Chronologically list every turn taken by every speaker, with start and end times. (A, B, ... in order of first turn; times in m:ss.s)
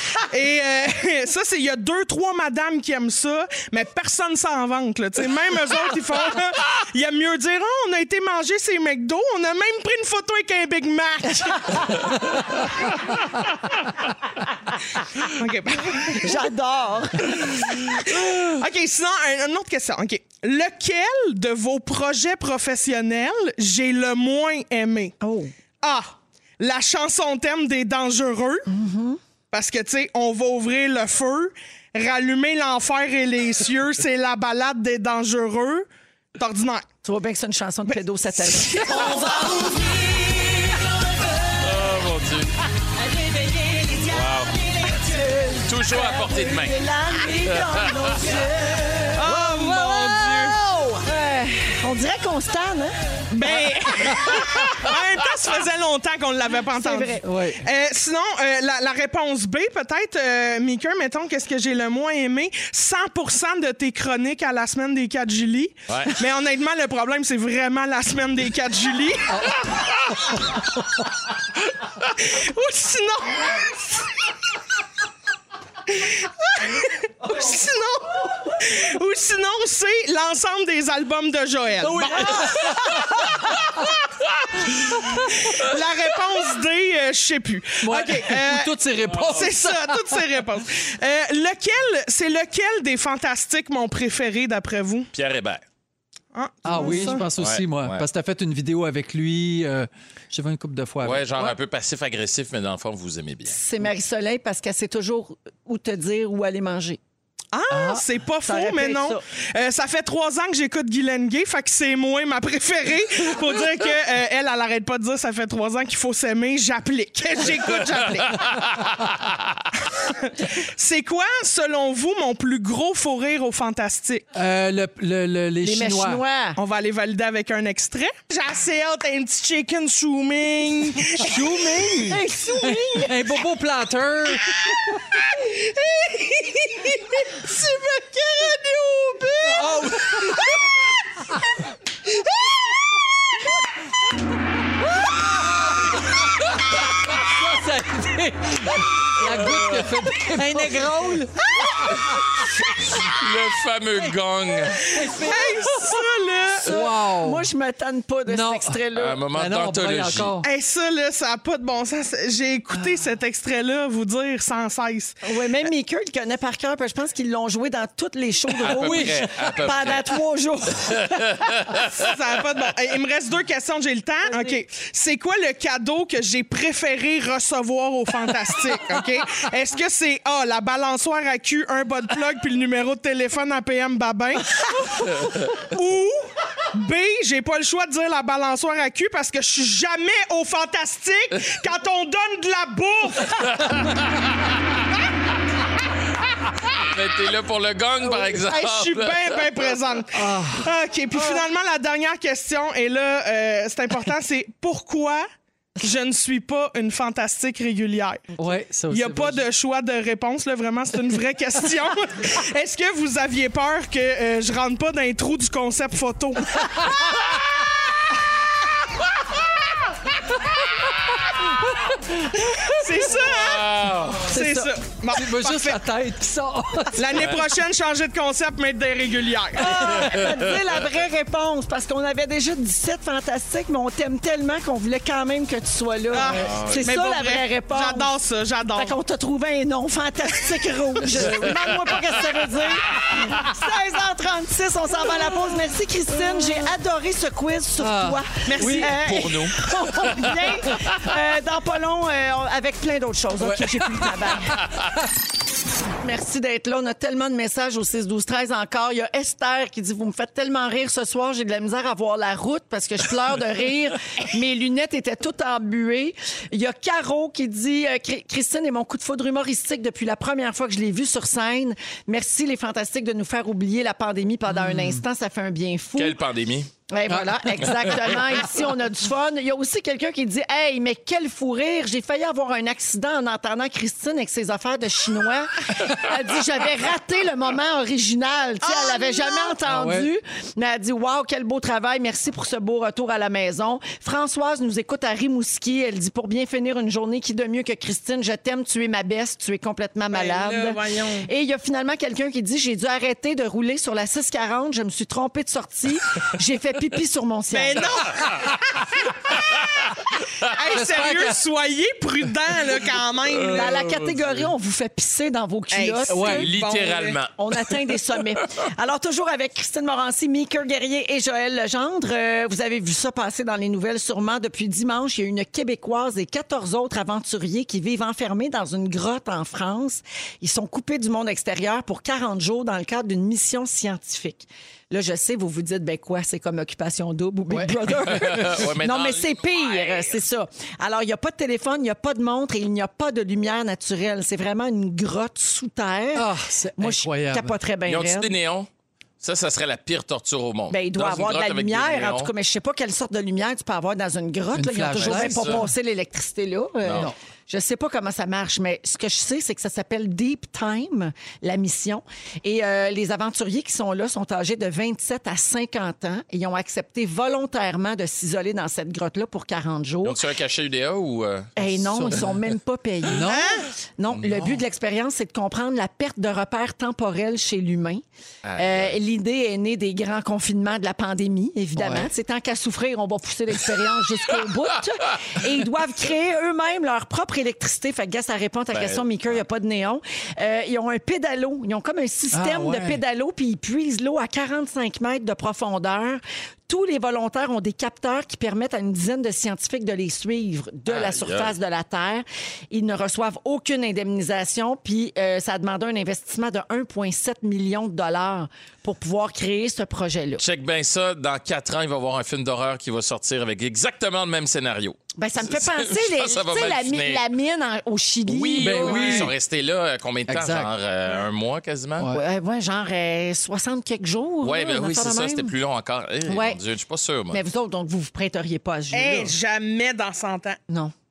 0:00.3-0:12.0 A
0:15.3-0:16.4 A
0:16.0-0:18.0 B
0:17.9-0:25.2 A
0:25.2-0:25.5 B
0:25.8-0:28.7 A
0:28.7-0:29.2 B
0:29.5-0:36.8 A
0:37.0-0:40.5 B
0:38.4-0:39.2 A
0:41.6-0:42.5 C
0:43.1-0:54.2 B
0:44.1-0:44.6 C
0:45.7-0:46.8 C
0:47.5-0:48.2 C
0:49.2-0:50.6 A
0:53.3-1:09.3 A
0:56.7-0:57.2 B
0:57.2-0:57.6 D
1:05.9-1:06.2 C
1:12.2-1:14.1 A
1:15.9-1:23.0 A
1:21.8-1:22.9 D
1:25.4-1:28.7 A
1:27.8-1:30.2 D
1:29.3-1:35.1 A
1:35.1-1:35.6 C
1:36.3-1:37.3 A
1:36.6-1:41.6 D
1:36.8-1:37.1 B
1:37.4-1:38.0 C
1:41.0-1:43.5 C
1:43.5-1:47.0 B
1:47.5-1:58.4 A
1:47.7-1:48.0 D
1:48.4-1:49.2 B
2:00.0-2:04.3 A
2:04.3-2:06.2 D
2:05.6-2:06.6 B
2:06.6-2:11.8 A
2:11.2-2:14.6 D
2:12.0-2:13.2 B
2:15.5-2:19.5 A
2:19.4-2:20.4 D
2:27.2-2:31.5 D
2:29.4-2:29.8 C
2:33.0-2:34.9 C
2:34.8-2:36.0 D
2:35.2-2:36.7 A
2:36.6-2:37.5 D
2:36.6-2:39.2 B
2:38.3-2:40.5 D
2:39.0-2:40.3 C
2:40.4-2:45.2 A
2:45.2-2:51.2 B
2:48.6-2:50.1 C
2:48.6-2:49.3 D
2:51.1-2:51.8 C
2:52.0-3:13.4 A
3:13.4-3:14.2 C
3:16.8-3:19.6 C
3:18.0-3:25.2 A
3:20.2-3:20.7 D
3:25.8-3:28.3 A
3:28.4-3:29.5 D
3:28.9-3:36.6 A
3:42.7-3:45.8 A
3:43.4-3:44.2 C
3:44.3-3:44.7 B
3:45.1-3:47.3 D
3:47.0-3:50.1 A
3:49.6-3:58.1 B
3:56.1-3:59.0 A
3:56.4-3:56.8 C
3:58.7-4:14.6 B
4:01.2-4:01.6 D
4:07.8-4:08.9 D
4:08.5-4:09.2 A
4:09.1-4:09.5 C
4:13.4-4:14.8 D
4:16.0-4:36.2 B
4:34.5-4:35.0 D
4:36.0-4:36.7 C
4:36.9-5:08.0 B
4:37.1-4:37.6 D
4:48.6-4:49.5 A
4:49.6-4:50.1 D
5:00.1-5:01.3 A
5:07.5-5:08.8 A
5:10.5-5:13.8 A
5:10.7-5:11.4 D
5:13.5-5:14.4 C
5:13.5-5:16.5 B
5:15.7-5:17.2 A
5:16.1-5:16.5 D
5:16.4-5:17.3 C
5:17.4-5:48.3 B
5:37.5-5:38.6 D
5:38.1-5:40.2 C
5:46.2-5:47.6 D
5:47.9-5:48.7 C
5:49.2-5:52.3 C
5:50.7-6:10.2 B
5:54.5-5:55.7 D
5:55.0-5:55.6 C
5:56.8-5:57.1 C
6:10.0-6:11.6 C
6:11.6-6:13.3 B
6:11.8-6:12.4 D
6:13.1-6:13.6 D
6:13.3-6:13.7 A
6:14.0-6:18.0 B
6:18.4-6:19.0 C
6:18.6-6:50.4 B
6:21.8-6:22.1 D
6:28.7-6:29.4 C
6:32.3-6:33.0 D
6:40.9-6:41.5 C
6:50.4-6:57.2 C
6:55.2-6:59.3 B
6:58.3-7:02.1 C
6:58.6-6:59.3 D
7:00.3-7:00.7 D
7:02.1-7:05.5 B
7:04.4-7:07.4 C
7:06.3-7:06.6 B
7:07.3-7:09.3 B
7:08.9-7:10.6 A